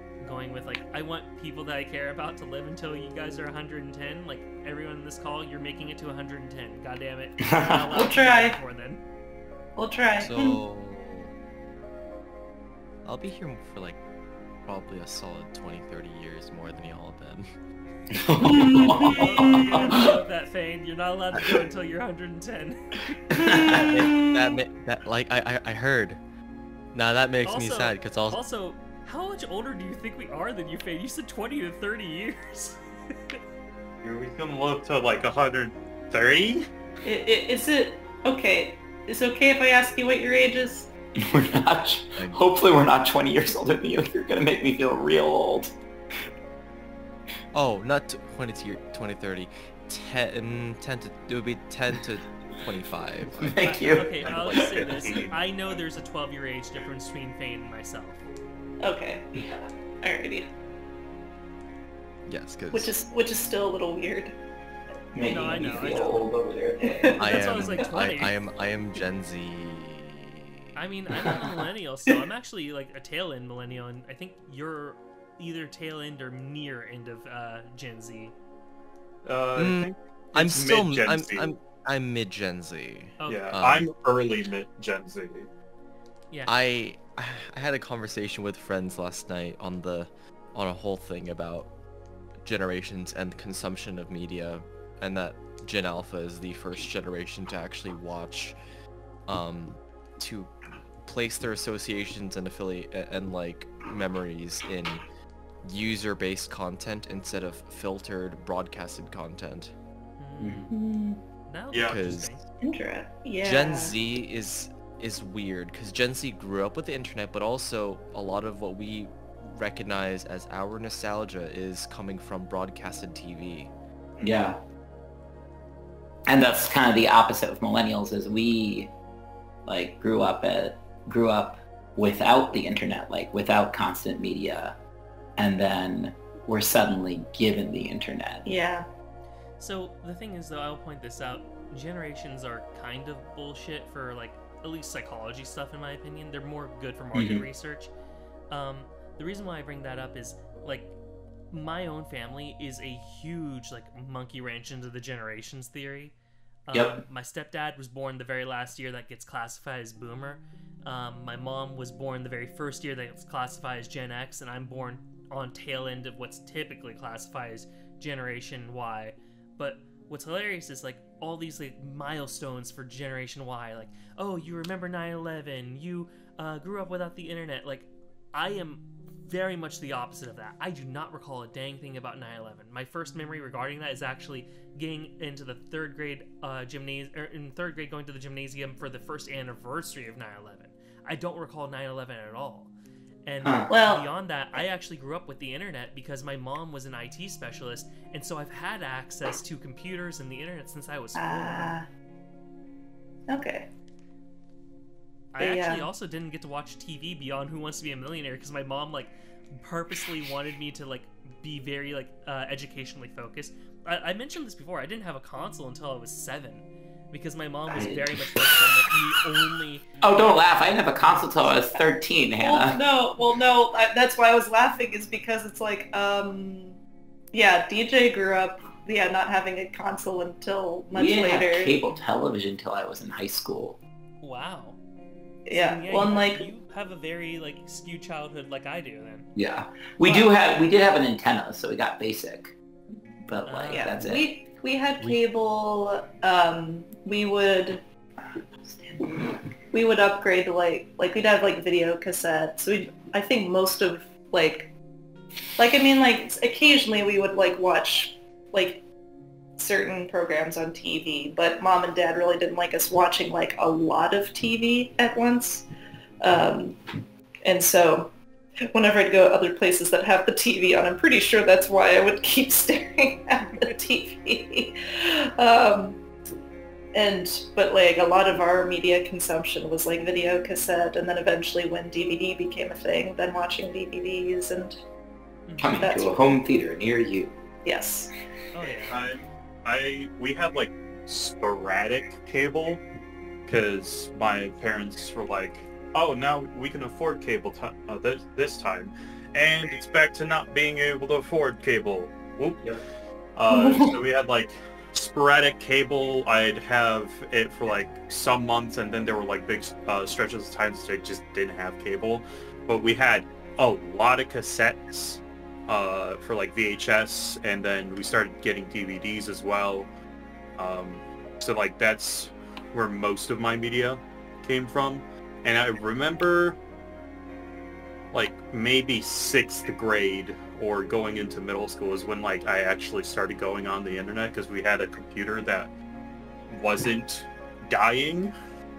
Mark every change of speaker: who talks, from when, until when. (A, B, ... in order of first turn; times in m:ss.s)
0:00.2-0:09.0 A
0:07.5-0:07.9 B
0:07.9-0:08.6 C
0:09.8-0:10.6 C
0:10.2-0:11.3 D
0:13.0-0:14.0 D
0:14.6-0:17.5 D
0:18.1-0:20.2 B
0:18.4-0:19.7 C
0:19.1-0:22.8 A
0:23.3-0:23.9 B
0:23.3-0:24.6 C
0:23.7-0:26.2 D
0:26.9-0:28.4 D
0:27.4-0:33.4 A
0:34.0-0:36.7 E
0:37.0-0:40.9 C
0:41.2-0:45.7 B
0:47.5-0:53.6 D
0:53.4-0:55.3 B
0:53.6-0:58.2 A
0:54.3-0:55.3 E
0:54.3-0:54.7 D
0:58.8-0:59.3 C
0:59.3-0:59.7 B
1:00.0-1:00.5 C
1:02.3-1:02.9 D
1:02.7-1:04.4 C
1:05.1-1:07.4 B
1:05.2-1:06.3 A
1:06.8-1:07.2 C
1:07.2-1:10.6 D
1:07.2-1:08.4 A
1:10.8-1:18.4 A
1:19.2-1:21.5 E
1:19.6-1:23.9 D
1:23.2-1:23.5 A
1:23.3-1:25.5 E
1:26.5-1:31.7 D
1:32.4-1:38.6 D
1:39.3-1:45.0 D
1:45.6-1:49.7 D
1:50.2-1:50.7 A
1:50.4-1:50.7 E
1:50.7-1:51.2 C
1:51.5-1:52.4 A
1:51.7-1:52.0 E
1:51.9-1:52.4 D
1:52.6-1:53.9 C
1:53.4-2:03.7 D
2:04.2-2:04.5 E
2:04.2-2:04.6 B
2:06.3-2:08.9 B
2:09.6-2:14.8 B
2:15.4-2:18.4 B
2:18.4-2:18.9 C
2:19.6-2:27.9 A
2:27.1-2:27.4 B
2:28.5-2:31.0 A
2:31.5-2:36.2 A
2:36.7-3:12.7 A
2:36.7-2:37.0 B
3:13.3-3:21.7 A
3:13.4-3:13.7 B
3:13.7-3:14.6 C
3:21.2-3:21.9 C
3:23.3-3:23.7 C
3:25.3-3:39.8 A
3:25.4-3:25.9 C
3:37.7-3:38.6 B
3:40.0-3:42.8 B
3:42.4-3:46.8 C
3:47.3-3:51.8 C
3:50.9-3:53.8 B
3:54.2-3:54.8 A
3:55.5-3:56.5 C
3:55.5-3:59.3 A
3:59.4-4:02.6 B
4:00.0-4:00.3 C
4:03.3-4:04.3 B
4:03.5-4:03.9 A
4:03.7-4:07.8 C
4:08.6-4:14.7 C
4:15.6-4:18.8 C
4:19.6-4:25.7 C
4:26.2-4:26.8 C
4:27.4-4:28.1 C
4:28.7-4:36.0 C
4:36.9-4:44.8 C
4:45.5-4:45.9 A
4:45.6-4:47.4 B
4:45.8-4:46.2 C
4:47.6-4:48.1 C
4:48.5-4:49.0 A
4:48.9-4:52.8 E
4:53.5-5:02.8 E
5:03.4-5:19.9 E
5:03.5-5:03.9 C
5:20.6-5:26.6 E
5:28.1-5:35.7 E
5:36.5-5:38.4 E